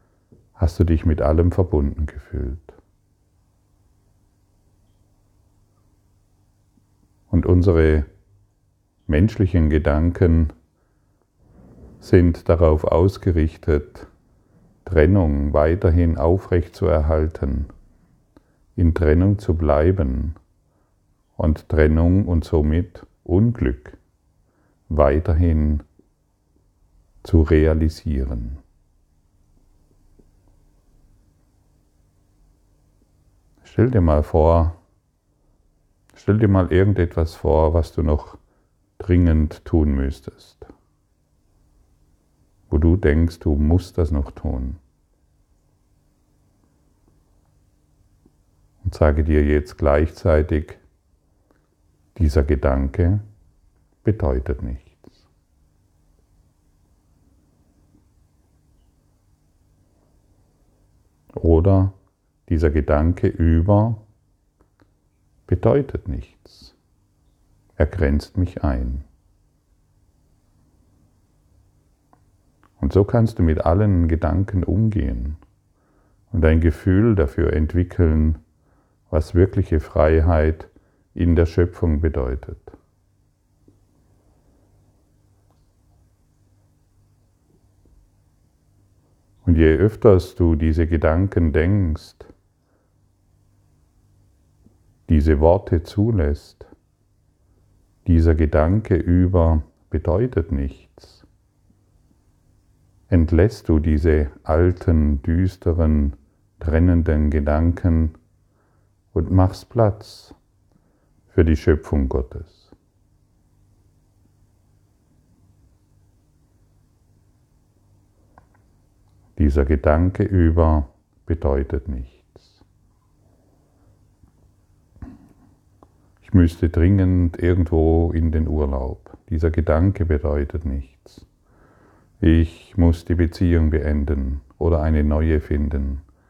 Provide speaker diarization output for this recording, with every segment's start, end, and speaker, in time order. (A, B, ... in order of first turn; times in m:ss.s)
0:00.6-0:02.8 A
0:07.3-0:08.1 A
0:09.1-0:10.5 A
0:12.0-0:14.1 A
0:14.8-0:17.7 A
0:18.8-0:20.4 A
0:21.4-0:24.0 A
0:24.9-0:25.8 A
0:27.2-0:28.6 A
0:33.6-0:34.8 A
0:36.1-0:38.4 A
0:39.0-0:40.7 A
0:42.7-0:44.8 A
0:48.8-0:50.8 A
0:52.1-0:53.2 A
0:54.0-0:55.2 A
1:01.3-1:01.9 A
1:02.5-1:04.0 A
1:05.5-1:06.8 A
1:07.8-1:09.1 A
1:12.8-1:15.4 A
1:16.3-1:18.4 A
1:19.1-1:22.8 A
1:29.4-1:32.3 A
1:35.1-1:36.7 A
1:38.1-1:41.2 A
1:43.1-1:48.2 A
1:49.1-1:50.3 A
1:51.3-1:52.7 A
1:59.4-2:02.6 A
2:06.2-2:11.2 A
2:12.2-2:16.0 A